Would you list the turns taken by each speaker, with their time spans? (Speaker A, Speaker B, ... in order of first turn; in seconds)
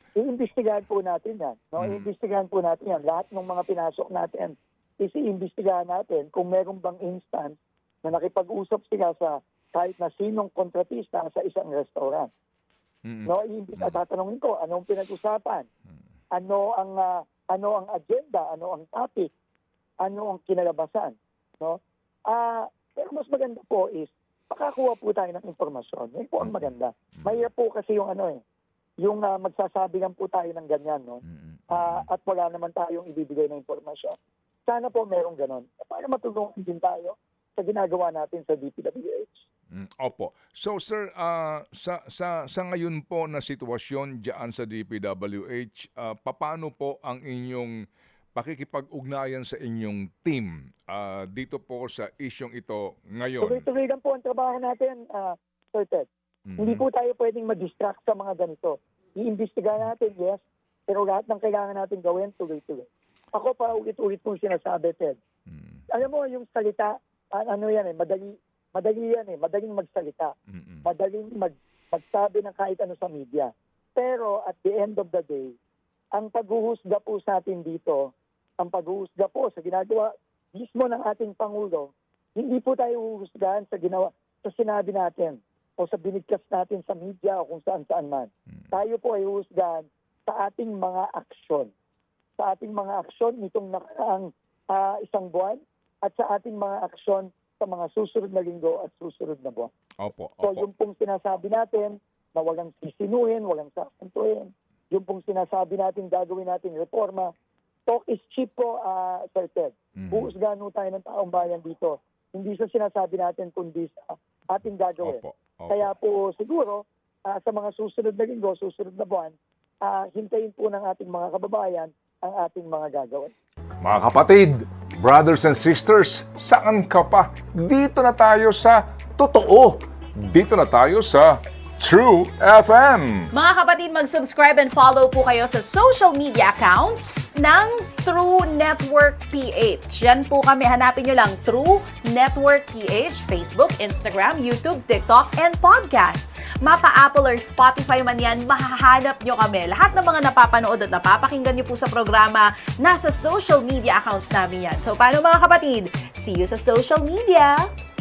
Speaker A: 0.2-12.3, 13.2-15.7, 16.3-19.3, 20.0-28.4, 29.0-34.1, 34.7-39.4, 53.4-56.1, 56.6-65.2, 65.9-70.3, 70.8-75.5, 76.1-78.0, 78.6-91.7, 92.4-99.7, 100.4-107.3, 107.9-123.3
Speaker B: 1.8-2.1, 13.0-14.0, 26.4-27.4, 31.2-32.1, 39.7-47.7, 48.3-53.6, 56.5-56.8, 65.5-65.9, 70.5-70.8, 100.0-100.7, 110.0-110.3, 115.0-115.9, 123.8-133.3
Speaker C: 133.3-157.7